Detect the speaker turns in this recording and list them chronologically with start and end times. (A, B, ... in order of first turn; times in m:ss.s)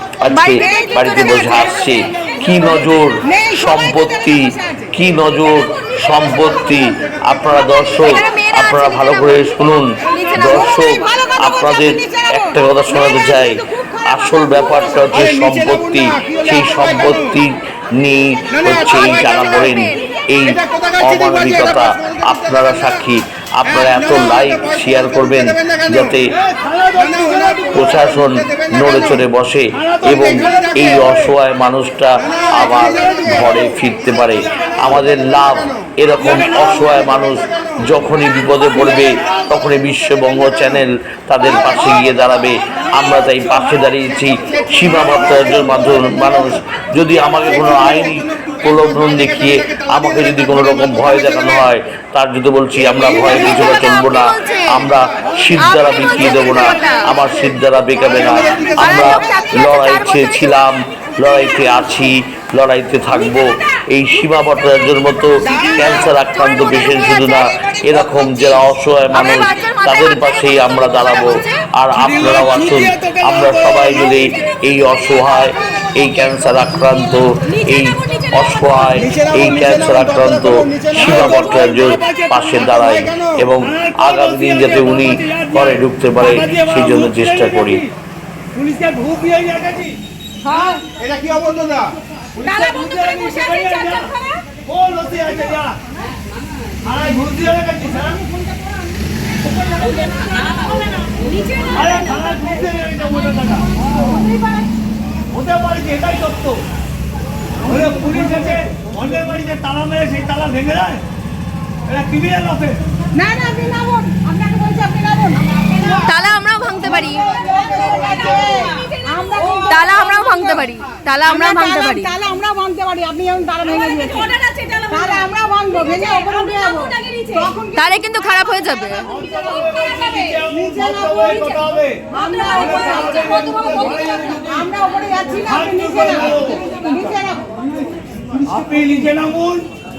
0:00.2-0:26.4 A
0:00.3-0:01.6 B
0:03.2-0:04.9 B
0:07.9-0:10.8 C
0:10.7-0:12.6 B
0:18.9-0:19.9 C
0:26.4-0:27.7 D
0:27.7-1:27.8 A
0:53.1-0:54.8 C
0:55.5-0:57.2 C
0:58.2-1:00.6 C
1:05.5-1:08.3 C
1:09.1-1:11.6 C
1:12.0-1:12.7 D
1:17.7-1:19.1 C
1:21.7-1:22.4 D
1:23.6-1:27.9 D
1:28.5-1:30.0 D
1:30.5-1:30.8 D
1:32.4-1:34.1 D
1:34.6-1:35.8 D
1:36.8-1:38.2 D
1:41.7-1:43.8 D
1:43.8-1:44.6 B
1:45.3-1:46.6 D
1:47.6-1:51.0 D
1:51.9-1:52.8 D
1:53.1-1:55.5 B
1:55.7-1:57.4 C
1:57.4-1:58.1 D
1:57.5-2:00.6 B
1:59.5-2:02.1 C
2:01.3-2:04.4 B
2:04.2-2:05.0 C
2:04.9-2:07.9 B
2:06.9-2:09.1 C
2:09.0-2:12.0 D
2:10.5-2:11.4 B
2:12.1-2:17.6 B
2:12.5-2:14.7 D
2:13.6-2:13.8 C
2:15.4-2:16.6 D
2:18.4-2:19.6 D